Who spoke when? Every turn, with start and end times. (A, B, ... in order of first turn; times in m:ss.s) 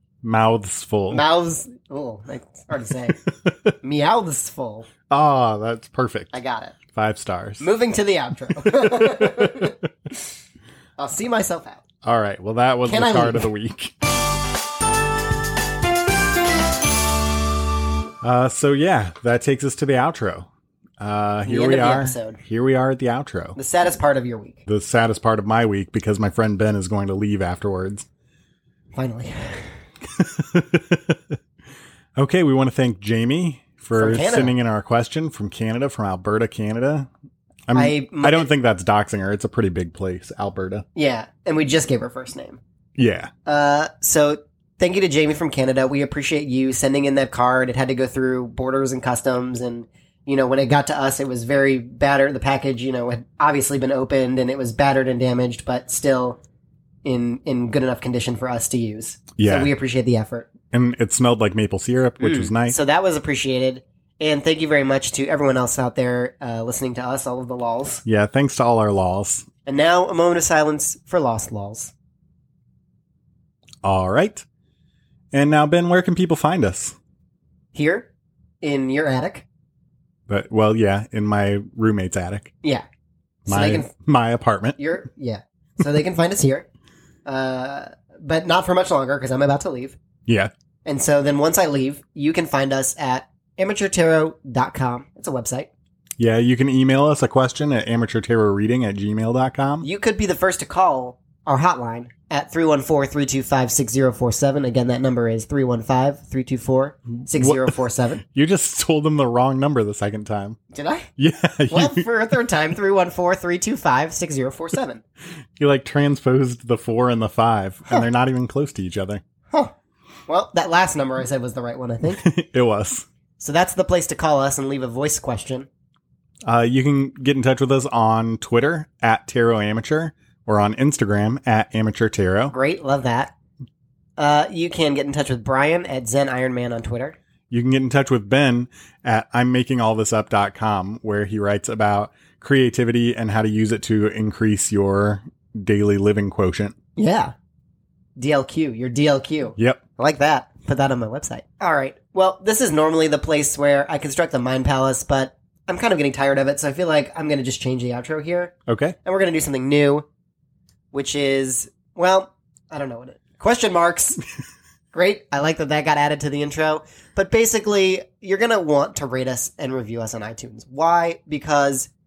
0:00.2-0:01.2 A
0:01.1-0:03.2 B
0:03.4-0:03.7 A
0:03.8-0:04.9 B
0:05.1-0:06.3 A
0:06.3-0:06.7 B
0:06.9-0:07.7 A
0:07.6-0:09.8 B
0:08.6-0:09.7 A
0:11.0-0:11.8 B
0:12.0-0:13.9 A
0:12.8-0:13.5 B
0:18.2-0:20.5 A
0:21.0-0:23.6 A
0:21.4-0:22.4 B
0:23.6-0:24.6 B
0:24.7-0:28.1 A
0:28.9-0:29.8 B
0:30.1-0:31.4 A
0:32.2-0:37.1 A
0:33.9-0:34.5 B
0:37.7-0:40.8 A
0:37.7-0:38.5 B
0:40.9-0:42.6 B
0:43.0-0:43.3 A
0:43.4-0:56.4 B
0:57.0-1:00.5 B
0:59.4-0:59.7 A
1:00.7-1:02.8 A
1:02.2-1:08.0 B
1:08.0-1:09.5 A
1:09.6-1:11.9 B
1:13.8-1:14.4 A
1:15.3-1:17.0 A
1:17.7-1:18.1 B
1:18.6-1:19.4 B
1:20.3-1:22.5 A
1:23.5-1:23.9 B
1:23.5-1:24.8 A
1:24.8-1:26.7 B
1:27.2-1:30.0 B
1:30.3-1:30.5 A
1:30.8-1:35.7 B
1:36.2-1:39.8 A
1:39.8-1:48.2 B
1:47.3-1:50.6 A
1:50.7-1:51.1 B
1:51.2-1:52.0 A
1:51.7-1:55.0 B
1:55.6-1:59.2 A
2:00.3-2:02.2 B
2:02.1-2:03.0 A
2:03.4-2:05.7 B
2:06.4-2:12.5 A
2:12.5-2:13.3 B
2:14.2-2:17.2 B
2:17.5-2:26.7 A
2:27.0-2:27.3 B
2:28.2-2:40.0 B
2:29.6-2:29.8 A
2:38.7-2:39.0 A
2:40.9-2:44.2 B
2:44.9-2:51.9 B